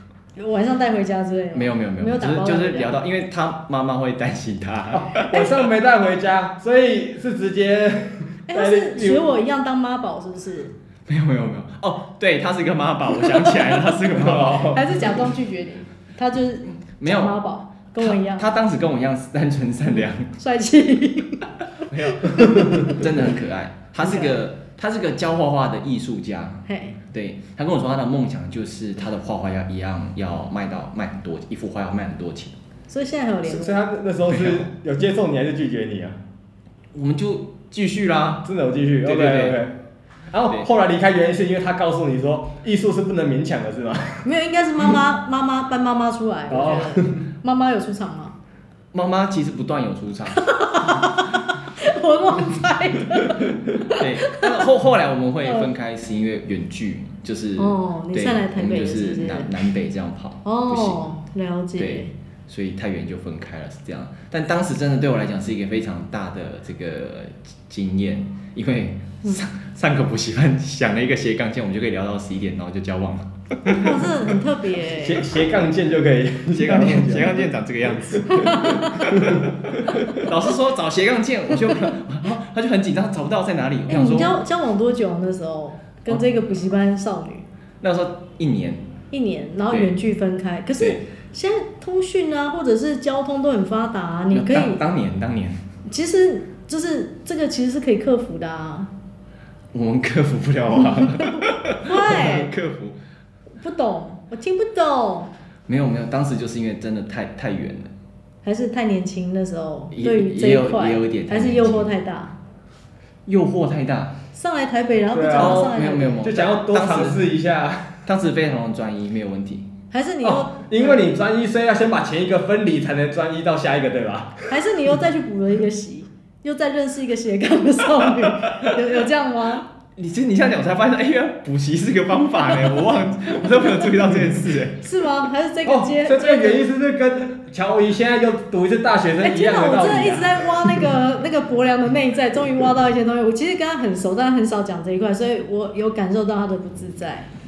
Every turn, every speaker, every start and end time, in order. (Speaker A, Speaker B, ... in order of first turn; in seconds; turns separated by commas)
Speaker A: 0.3-3.0, Speaker B: 1.5-5.3, Speaker C: 4.9-9.3, Speaker A: 8.5-10.7, Speaker B: 11.1-14.8, Speaker A: 13.4-13.8, Speaker C: 14.1-14.8, Speaker A: 14.6-18.5, Speaker B: 16.7-17.4, Speaker B: 18.0-20.3, Speaker A: 20.4-21.5, Speaker B: 21.8-32.6, Speaker A: 22.1-22.9, Speaker A: 24.0-24.4, Speaker A: 26.7-27.0, Speaker A: 32.9-33.8, Speaker C: 33.4-36.2, Speaker B: 34.3-34.6, Speaker B: 36.9-38.5, Speaker C: 38.4-39.8, Speaker B: 39.0-39.6, Speaker C: 40.3-44.2, Speaker A: 44.2-48.3, Speaker C: 46.5-47.2, Speaker B: 48.9-51.2, Speaker A: 50.4-54.5, Speaker B: 53.9-61.0, Speaker A: 57.6-59.5, Speaker A: 60.4-62.1, Speaker B: 61.8-74.0, Speaker A: 73.7-75.3, Speaker C: 74.9-78.0, Speaker B: 76.5-84.4, Speaker A: 78.2-79.1, Speaker C: 79.1-79.5, Speaker A: 83.9-87.4, Speaker B: 87.8-88.8, Speaker A: 89.1-94.8, Speaker B: 94.3-95.6, Speaker A: 95.9-98.9, Speaker B: 99.7-103.0, Speaker A: 101.2-102.5, Speaker A: 103.6-105.3, Speaker B: 105.7-107.9, Speaker A: 108.4-112.3, Speaker B: 109.9-111.9, Speaker B: 113.2-114.2, Speaker A: 114.3-116.4, Speaker C: 115.1-118.0, Speaker B: 115.3-117.2, Speaker B: 118.0-119.7, Speaker A: 119.9-121.1, Speaker C: 120.2-124.5, Speaker A: 124.5-129.7, Speaker B: 129.9-134.8, Speaker A: 134.8-136.6, Speaker C: 135.6-140.7, Speaker A: 139.2-147.3